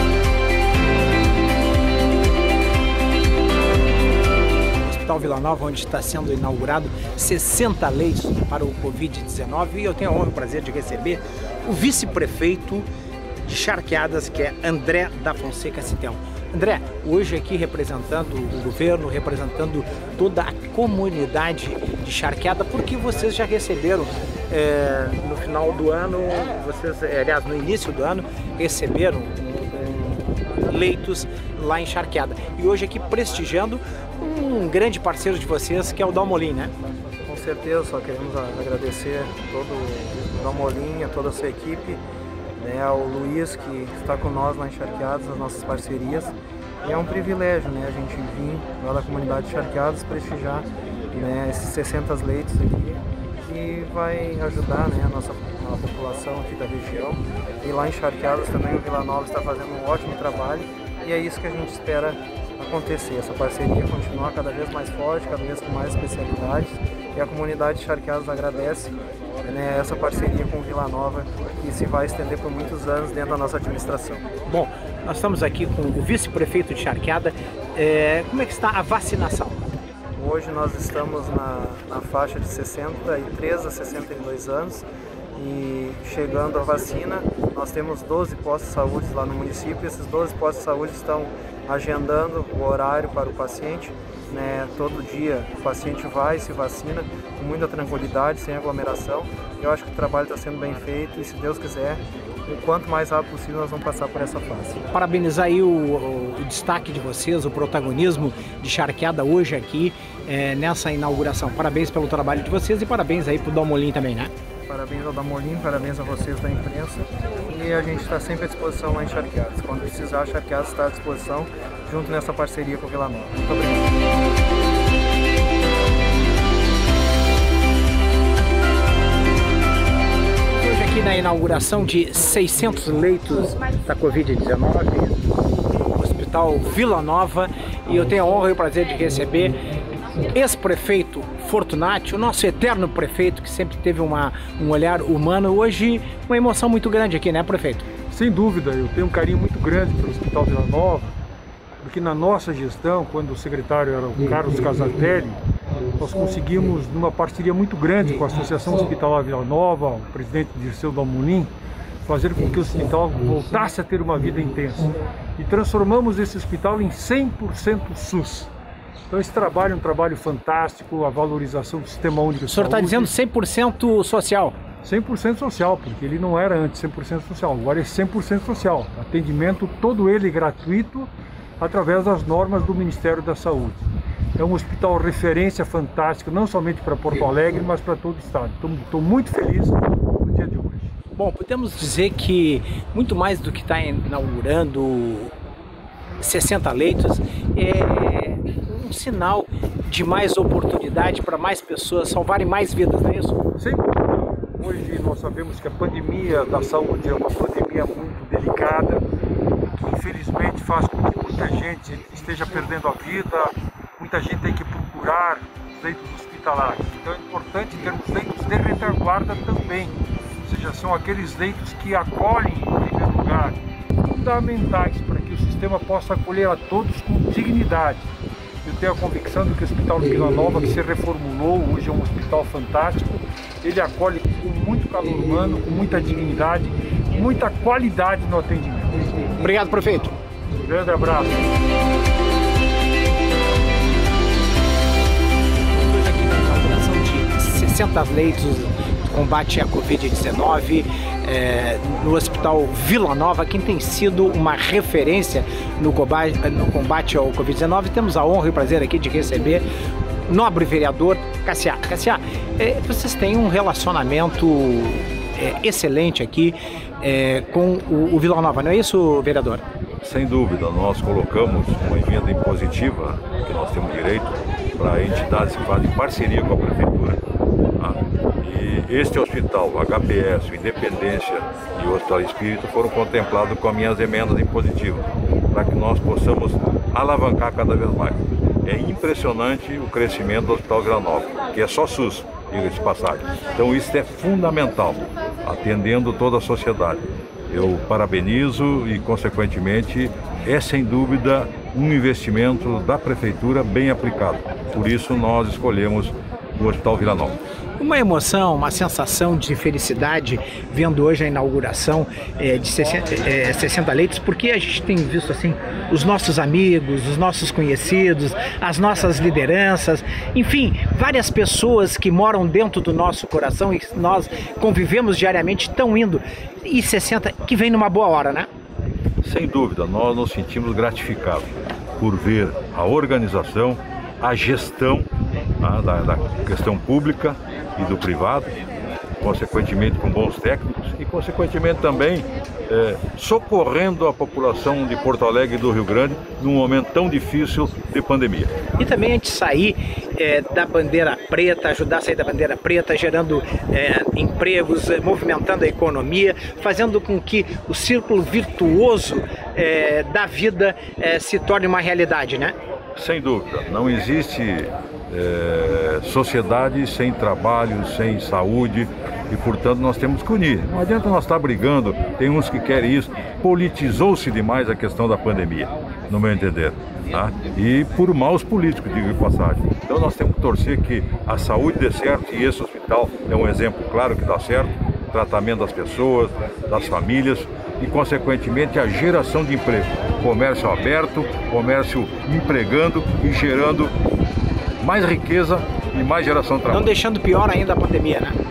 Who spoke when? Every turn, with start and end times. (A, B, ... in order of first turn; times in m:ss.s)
0:04.7-0:12.9 A
0:13.4-0:36.7 A
0:37.2-0:42.0 B
0:42.6-1:14.3 B
1:14.5-1:19.7 A
1:20.1-1:44.8 B
1:44.9-1:54.3 A
1:54.7-2:04.0 B
2:10.5-2:15.3 A
2:15.9-2:27.9 A
2:28.1-2:31.1 C
2:31.8-2:35.4 C
2:35.9-2:41.5 C
2:42.1-2:48.5 C
2:49.1-2:53.1 C
2:52.4-2:54.6 A
2:54.8-3:03.8 C
3:04.4-3:10.9 C
3:11.2-3:15.3 A
3:16.2-3:23.4 A
3:23.6-3:29.0 C
3:29.7-3:48.1 C
3:48.6-3:59.0 C
3:59.4-4:00.1 A
4:00.6-4:01.4 C
4:05.6-4:19.6 A
4:20.3-4:29.6 A
4:30.0-4:37.2 D
4:37.8-5:07.4 D
5:07.8-5:28.5 A
5:29.2-5:35.1 D
5:35.6-5:38.6 D
5:39.2-5:48.5 D
5:48.8-6:02.6 A
6:02.9-6:33.9 D
6:34.8-6:36.9 D
6:36.7-6:38.4 A